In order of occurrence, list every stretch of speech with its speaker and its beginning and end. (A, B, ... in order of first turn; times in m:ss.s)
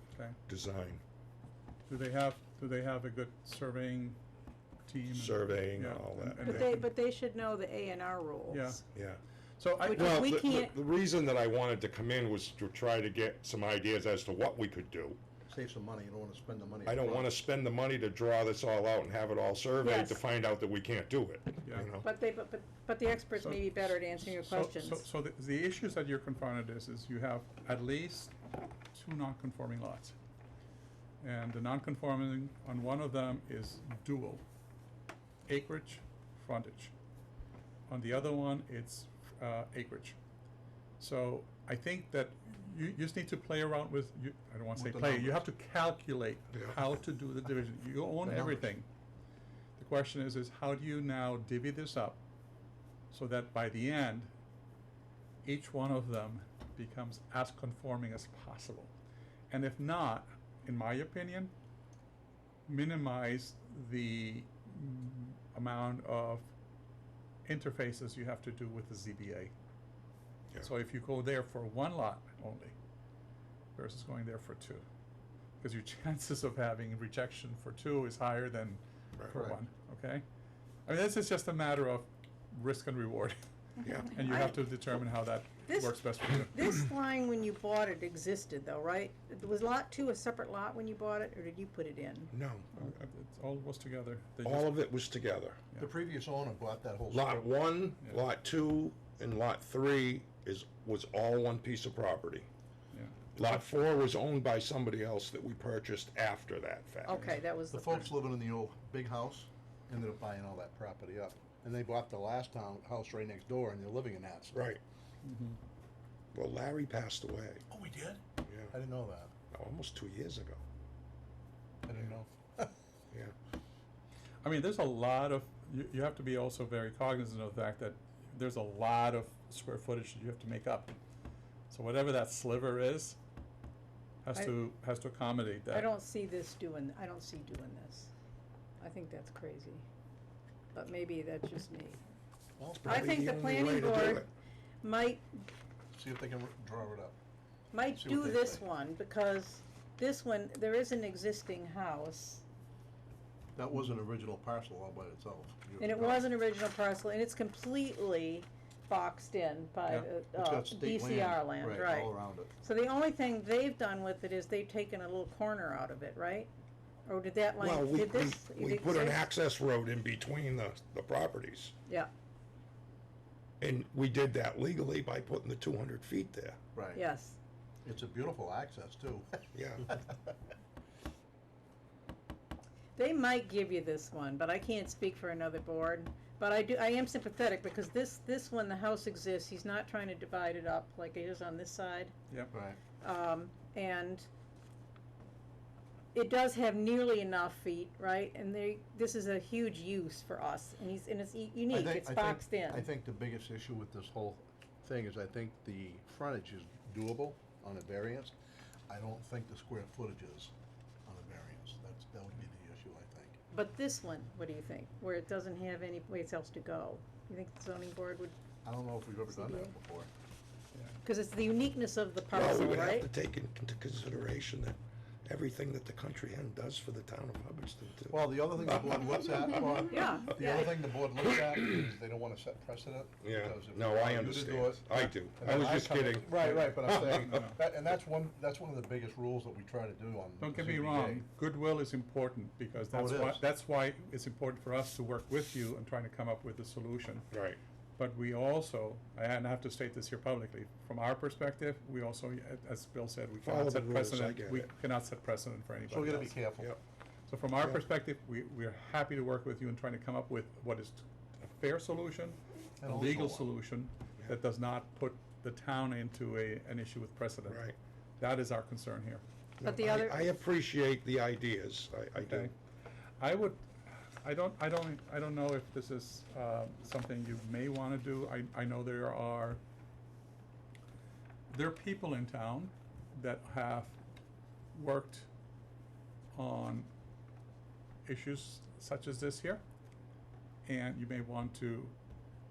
0:00.5-0:01.0 A
0:01.9-0:04.2 B
0:04.8-0:06.8 B
0:05.1-0:06.7 A
0:06.4-0:08.8 C
0:08.5-0:08.8 B
0:08.9-0:09.2 A
0:09.6-0:10.3 B
0:09.8-0:10.7 C
0:09.9-0:15.2 A
0:15.5-0:17.3 D
0:16.8-0:22.0 A
0:19.8-0:20.2 C
0:21.6-0:21.9 B
0:22.0-0:25.0 C
0:23.4-0:28.3 B
0:28.9-0:30.1 B
0:31.2-0:34.4 B
0:35.5-0:36.9 B
0:37.9-0:40.2 B
0:41.0-0:48.8 B
0:44.8-0:45.4 D
0:48.2-0:48.7 D
0:49.8-0:52.2 B
0:53.1-0:54.3 B
0:55.4-0:58.9 B
0:59.5-1:01.5 B
1:02.6-1:06.5 B
1:07.4-1:09.5 B
1:10.6-1:12.7 B
1:13.8-1:14.8 B
1:15.6-1:20.2 B
1:19.2-1:19.4 A
1:20.9-1:23.4 B
1:23.8-1:24.1 A
1:24.1-1:26.8 B
1:24.1-1:24.6 C
1:25.7-1:32.3 C
1:32.3-1:32.7 A
1:32.7-1:34.9 B
1:34.4-1:35.6 A
1:35.8-1:37.5 D
1:37.1-1:42.5 A
1:42.9-1:43.3 B
1:43.4-1:47.3 A
1:47.0-1:48.1 C
1:47.7-1:54.6 D
1:54.5-1:54.8 A
1:55.2-1:55.6 B
1:56.3-1:57.6 A
1:57.7-1:59.3 D
1:58.4-1:58.7 A
1:59.5-2:00.6 A
2:01.8-2:02.7 D
2:04.4-2:11.0 B
2:11.7-2:13.2 B
2:14.2-2:15.9 B
2:15.7-2:18.1 C
2:18.8-2:19.8 C
2:20.7-2:22.0 C
2:22.6-2:23.1 D
2:22.8-2:24.3 A
2:22.8-2:24.2 C
2:24.8-2:25.4 C
2:25.9-2:27.2 D
2:27.7-2:32.4 C
2:27.9-2:28.6 D
2:33.6-2:36.3 D
2:35.8-2:46.5 C
2:40.3-2:42.5 D
2:47.0-2:49.2 C
2:47.6-2:51.7 A
2:53.6-2:56.6 A
2:56.7-2:57.0 D
2:56.9-2:57.4 C
2:57.8-3:00.3 D
2:59.5-2:59.8 A
3:03.0-3:12.1 C
3:12.5-3:12.8 D
3:13.0-3:14.3 C
3:16.1-3:22.9 C
3:21.7-3:28.3 D
3:28.9-3:30.5 D
3:31.0-3:33.4 D
3:33.5-3:38.3 C
3:38.6-3:40.1 D
3:39.3-3:39.7 C
3:41.0-3:43.1 C
3:42.3-3:48.2 A
3:48.1-4:01.2 D
3:49.8-3:50.8 C
3:53.2-3:57.3 A
3:56.3-3:57.6 B
4:00.4-4:07.3 B
4:02.9-4:03.4 D
4:07.3-4:07.6 A
4:08.0-4:16.4 B
4:13.4-4:14.7 A
4:15.9-4:16.7 D
4:17.3-4:29.2 B
4:22.8-4:23.5 D
4:27.5-4:27.8 A
4:29.6-4:32.5 A
4:29.6-4:30.3 C
4:32.2-4:32.5 B
4:33.2-4:39.6 B
4:41.5-4:44.0 B
4:44.7-4:45.3 B
4:46.3-4:46.9 B
4:48.0-4:49.6 B
4:50.6-4:51.9 B